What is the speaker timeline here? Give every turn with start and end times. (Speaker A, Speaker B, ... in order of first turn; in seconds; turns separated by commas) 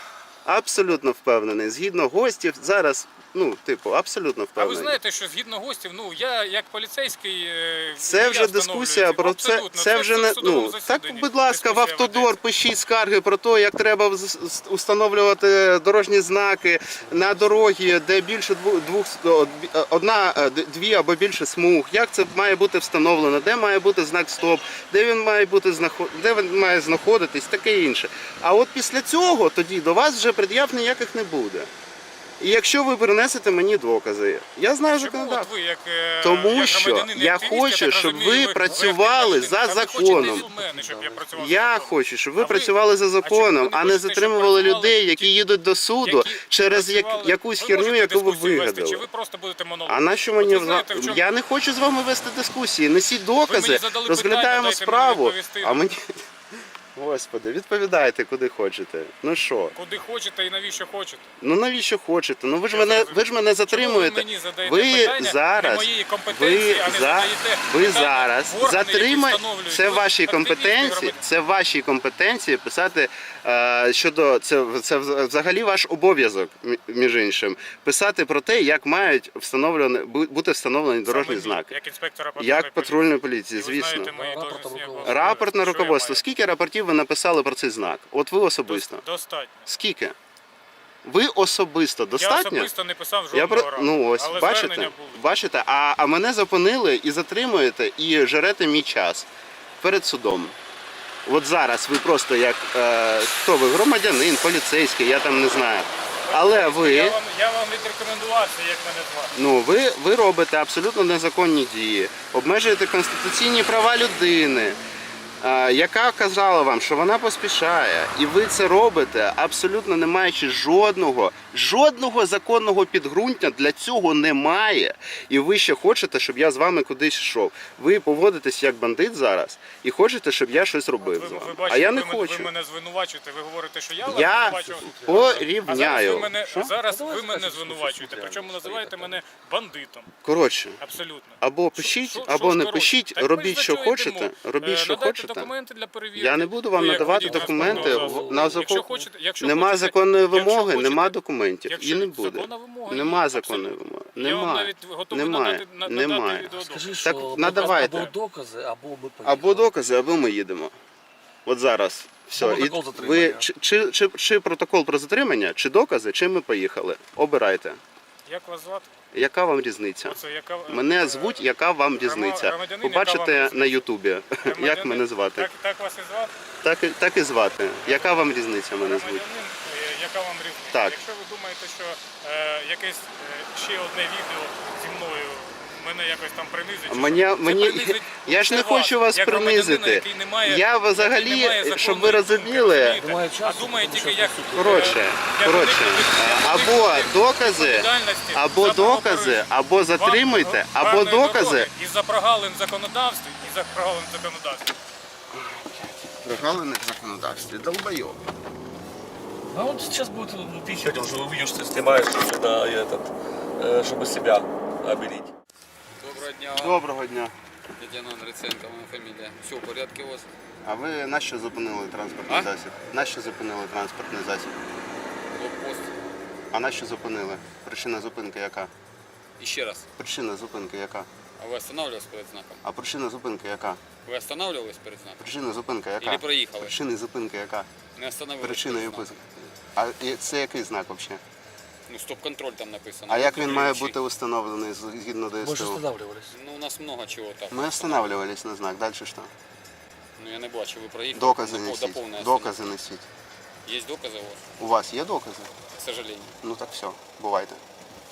Speaker A: 0.5-5.0, Speaker B: 4.6-12.4, Speaker A: 8.0-31.7, Speaker A: 32.4-35.5, Speaker B: 34.9-45.4, Speaker A: 36.2-40.5, Speaker C: 40.1-41.3, Speaker A: 41.3-49.0, Speaker B: 46.0-51.2, Speaker A: 49.9-56.1, Speaker B: 53.5-55.9, Speaker A: 57.0-59.8, Speaker B: 59.7-61.3, Speaker A: 61.4-81.7, Speaker B: 62.7-71.2, Speaker B: 81.0-86.2, Speaker A: 82.4-84.1, Speaker C: 84.2-85.3, Speaker A: 85.0-89.0, Speaker B: 88.7-89.7, Speaker A: 89.7-90.2, Speaker A: 91.0-92.7, Speaker B: 92.2-95.2, Speaker A: 93.3-99.3, Speaker A: 99.8-100.5, Speaker A: 101.2-107.2, Speaker B: 106.2-109.3, Speaker A: 109.3-114.8, Speaker A: 115.4-132.5, Speaker B: 131.0-140.1, Speaker A: 134.0-136.7, Speaker C: 134.7-135.5, Speaker C: 136.9-139.2, Speaker A: 140.2-140.8, Speaker B: 140.8-158.1, Speaker A: 141.4-145.5, Speaker A: 146.2-148.9, Speaker C: 146.8-148.7, Speaker A: 149.4-156.5, Speaker C: 156.6-159.7, Speaker A: 157.0-158.1, Speaker A: 159.2-160.7, Speaker A: 161.5-167.8, Speaker C: 162.4-163.5, Speaker B: 168.2-168.9, Speaker A: 169.1-175.5, Speaker B: 170.0-171.4, Speaker B: 172.0-173.9, Speaker B: 174.4-176.3, Speaker A: 176.6-179.2, Speaker B: 177.8-204.7, Speaker A: 180.7-181.0, Speaker A: 186.9-193.0, Speaker C: 193.0-195.0, Speaker A: 194.6-201.7, Speaker A: 206.2-208.2, Speaker C: 209.5-215.3, Speaker D: 216.0-216.9, Speaker A: 216.5-217.3, Speaker D: 217.8-220.2, Speaker A: 220.6-224.5, Speaker D: 225.3-225.9, Speaker A: 226.5-228.7, Speaker D: 229.4-229.9, Speaker A: 230.0-231.1, Speaker D: 231.4-232.6, Speaker A: 232.6-233.8, Speaker D: 234.0-235.2, Speaker A: 235.2-237.7, Speaker D: 236.0-236.8, Speaker D: 237.9-239.2, Speaker A: 238.4-241.2, Speaker D: 241.9-244.0, Speaker A: 243.1-245.8, Speaker C: 245.4-246.3, Speaker D: 246.3-248.1, Speaker A: 247.5-249.3, Speaker D: 250.2-252.6, Speaker A: 251.1-253.1, Speaker D: 253.7-254.5, Speaker A: 254.6-255.5, Speaker D: 255.7-256.4, Speaker A: 256.4-257.6